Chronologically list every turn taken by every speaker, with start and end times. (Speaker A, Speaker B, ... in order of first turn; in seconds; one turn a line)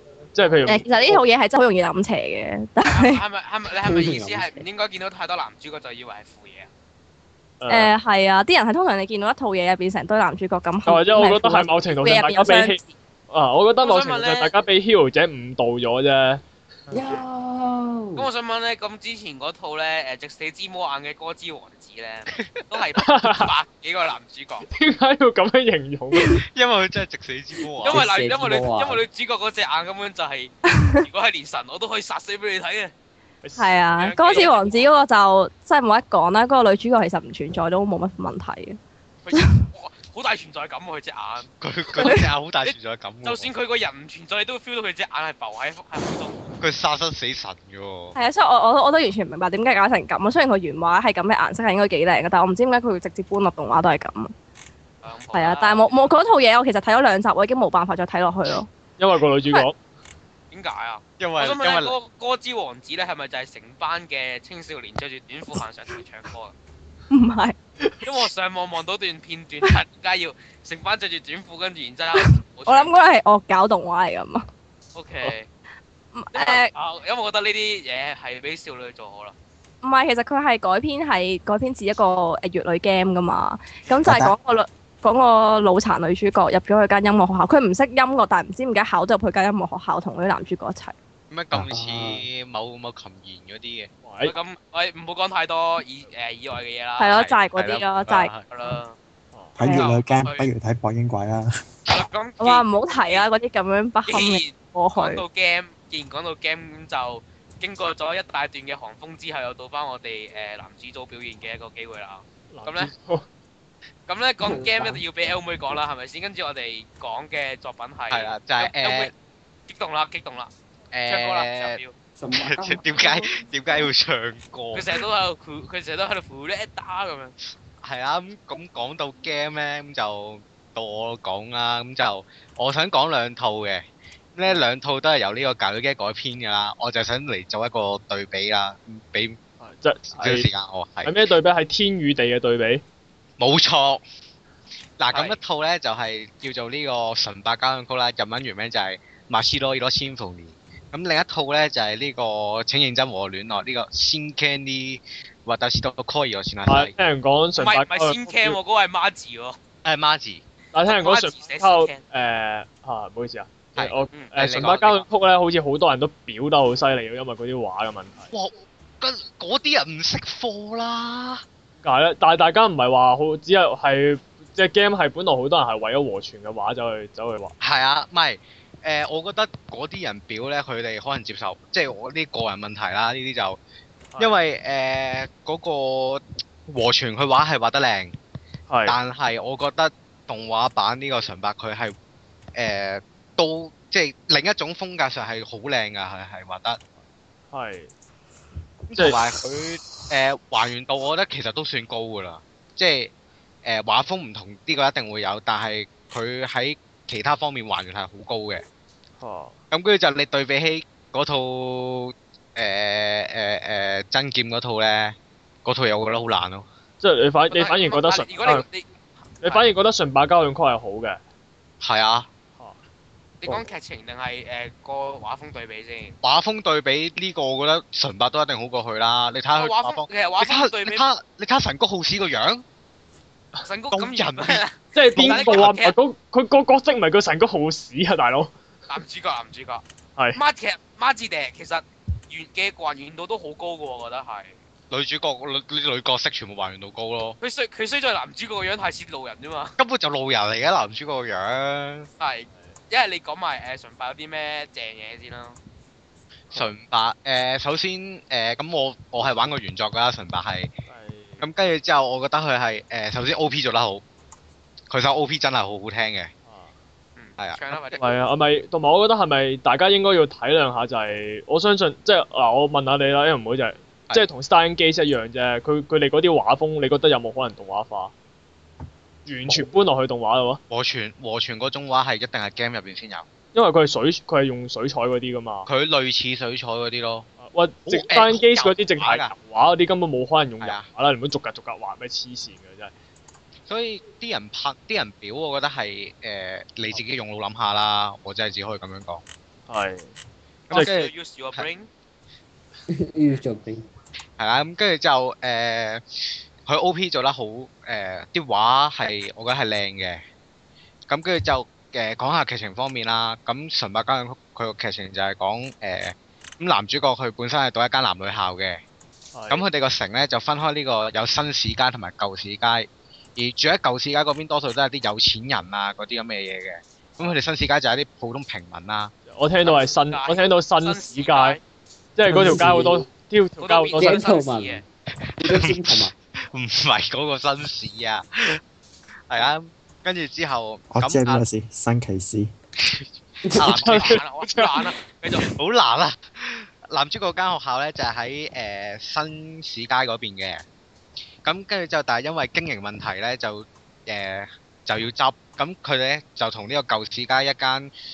Speaker A: 0.3-1.2
Speaker B: 0.7-3.2
Speaker C: 2.9-6.7
Speaker D: 3.8-4.7
Speaker A: 7.6-7.9
Speaker B: 7.7-12.9
Speaker A: 10.9-16.4
Speaker C: 13.8-14.6
Speaker D: 16.9-18.3
Speaker C: 18.2-24.7
Speaker E: 22.3-22.6
Speaker A: 23.0-23.5
Speaker A: 24.7-26.4
Speaker E: 26.4-28.0
Speaker C: 27.8-32.9
Speaker D: 27.9-29.0
Speaker B: 30.7-31.1
Speaker A: 33.4-33.7
Speaker B: 33.6-38.8
Speaker C: 34.0-34.9
Speaker C: 39.2-46.5
Speaker E: 41.6-43.5
Speaker E: 46.6-48.1
Speaker B: 48.1-54.3
Speaker C: 55.0-56.1
Speaker B: 55.3-58.7
Speaker A: 59.0-59.8
Speaker C: 60.5-66.5
Speaker E: 61.2-61.9
Speaker B: 67.1-67.6
Speaker C: 68.0-72.9
Speaker B: 72.2-74.4
Speaker C: 75.0-75.5
Speaker B: 76.2-76.7
Speaker C: 76.3-79.3
Speaker B: 79.8-91.0
Speaker F: 84.0-84.3
Speaker E: 91.3-93.9
Speaker D: 91.7-92.2
Speaker A: 94.0-94.3
Speaker C: 94.2-97.2
Speaker B: 97.0-98.3
Speaker E: 97.1-98.5
Speaker C: 98.5-99.0
Speaker F: 99.6-101.5
Speaker B: 99.6-99.9
Speaker C: 99.7-100.5
Speaker C: 101.9-103.3
Speaker B: 102.4-105.2
Speaker C: 104.1-112.9
Speaker A: 112.5-113.3
Speaker C: 114.1-119.1
Speaker D: 114.4-115.0
Speaker E: 118.1-119.1
Speaker C: 119.7-120.5
Speaker E: 120.9-121.8
Speaker C: 121.1-121.9
Speaker D: 122.2-123.8
Speaker E: 122.3-124.9
Speaker C: 124.7-127.3
Speaker E: 127.8-139.4
Speaker A: 139.6-140.5
Speaker E: 140.1-141.2
Speaker A: 141.1-142.8
Speaker E: 143.4-144.0
Speaker E: 145.0-156.9
Speaker C: 145.1-145.4
Speaker A: 156.7-158.6
Speaker C: 157.6-159.6
Speaker E: 159.8-160.4
Speaker A: 160.7-168.3
Speaker C: 160.8-162.0
Speaker E: 163.8-165.0
Speaker E: 168.3-171.4
Speaker A: 171.8-177.5
Speaker E: 177.6-183.6
Speaker E: 184.2-188.2
Speaker A: 188.7-189.0
Speaker E: 188.8-191.9
Speaker E: 192.6-196.8
Speaker A: 197.5-197.9
Speaker E: 198.9-203.1
Speaker A: 198.9-199.2
Speaker E: 203.6-208.6
Speaker A: 209.2-209.6
Speaker E: 209.7-216.7
Speaker A: 217.0-218.7
Speaker C: 217.5-219.7
Speaker A: 219.4-221.2
Speaker E: 221.8-222.3
Speaker C: 223.4-226.2
Speaker E: 226.2-232.6
Speaker C: 229.6-231.0
Speaker C: 233.7-235.9
Speaker E: 233.9-234.6
Speaker A: 234.9-238.5
Speaker E: 235.2-235.8
Speaker C: 238.9-239.8
Speaker C: 240.4-244.6
Speaker E: 244.9-247.4
Speaker C: 247.4-249.8
Speaker E: 249.8-252.1
Speaker C: 252.2-255.6
Speaker A: 252.5-252.8
Speaker E: 256.5-260.7
Speaker A: 260.9-261.5
Speaker E: 261.4-264.0
Speaker E: 264.9-266.3
Speaker A: 266.5-266.8
Speaker C: 267.2-268.0
Speaker E: 267.4-268.0
Speaker A: 268.0-278.1
Speaker A: 279.3-280.6
Speaker E: 280.7-283.3
Speaker A: 283.5-285.7
Speaker E: 285.7-287.3
Speaker A: 287.4-292.9
Speaker E: 287.9-289.3
Speaker E: 290.6-290.9
Speaker E: 293.7-299.2
Speaker A: 299.7-300.1
Speaker E: 300.7-301.7
Speaker C: 300.7-301.9
Speaker D: 302.9-303.9
Speaker E: 304.4-306.0
Speaker E: 306.7-310.2
Speaker E: 311.1-318.8
Speaker A: 319.3-319.6
Speaker E: 319.5-329.1
Speaker A: 329.3-331.6
Speaker C: 329.6-331.6
Speaker A: 332.2-334.2
Speaker D: 332.3-333.1
Speaker C: 333.6-334.8
Speaker D: 334.0-334.9
Speaker D: 335.4-336.1
Speaker E: 335.4-338.6
Speaker E: 339.3-341.4
Speaker F: 340.9-342.5
Speaker E: 342.8-344.2
Speaker C: 343.8-345.4
Speaker A: 343.8-344.9
Speaker E: 345.4-350.6
Speaker E: 351.4-357.9